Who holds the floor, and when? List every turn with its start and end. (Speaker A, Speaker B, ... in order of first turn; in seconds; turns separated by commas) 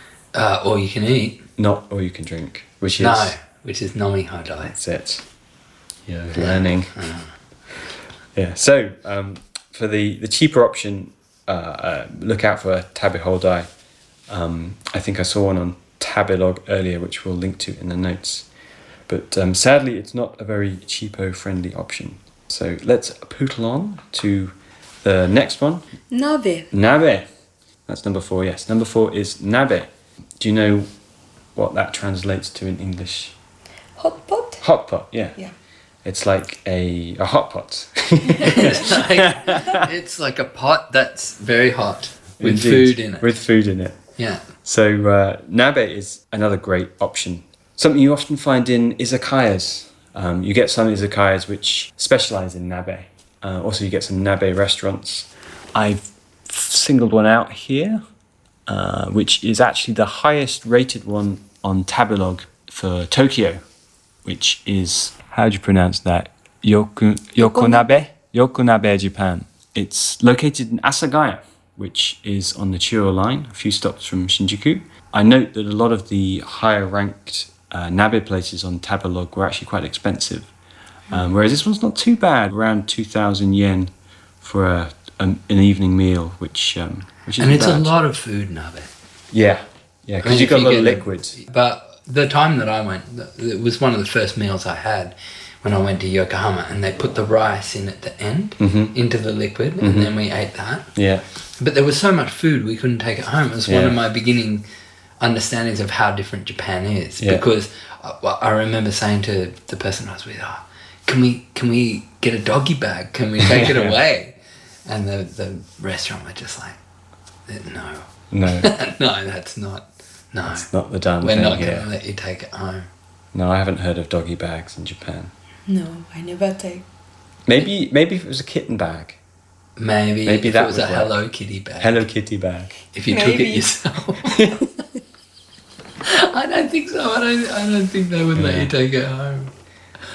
Speaker A: 0.3-1.4, Speaker B: 1.6-3.3, Speaker A: 3.0-4.7, Speaker B: 4.7-5.2, Speaker B: 6.1-6.9, Speaker A: 6.3-7.3, Speaker B: 8.3-13.7, Speaker B: 14.3-18.5, Speaker B: 19.1-25.8, Speaker C: 26.1-26.7, Speaker B: 26.7-27.3, Speaker B: 27.9-30.9, Speaker B: 31.6-33.3, Speaker C: 34.0-34.6, Speaker B: 34.6-35.4, Speaker B: 36.0-39.9, Speaker A: 38.4-43.3, Speaker B: 42.4-44.0, Speaker A: 44.2-44.4, Speaker B: 44.6-58.0, Speaker B: 58.7-63.6, Speaker B: 64.2-80.5, Speaker C: 67.4-68.0, Speaker B: 81.1-87.9, Speaker A: 87.4-88.9, Speaker B: 89.3-91.4, Speaker A: 90.2-100.9, Speaker B: 98.6-98.9, Speaker B: 99.8-100.1, Speaker B: 100.9-101.2, Speaker A: 101.6-104.6, Speaker B: 103.7-104.0, Speaker A: 105.2-116.8, Speaker B: 113.5-114.0, Speaker A: 117.5-120.7, Speaker B: 118.3-118.7, Speaker B: 120.5-121.9, Speaker A: 121.2-122.9, Speaker B: 123.3-125.3, Speaker C: 125.7-126.8, Speaker B: 127.5-129.2, Speaker A: 129.8-132.0, Speaker B: 130.2-131.2, Speaker B: 131.8-132.8, Speaker A: 132.9-134.5, Speaker C: 133.1-133.7, Speaker B: 134.3-134.7, Speaker A: 136.0-139.5, Speaker B: 138.3-138.7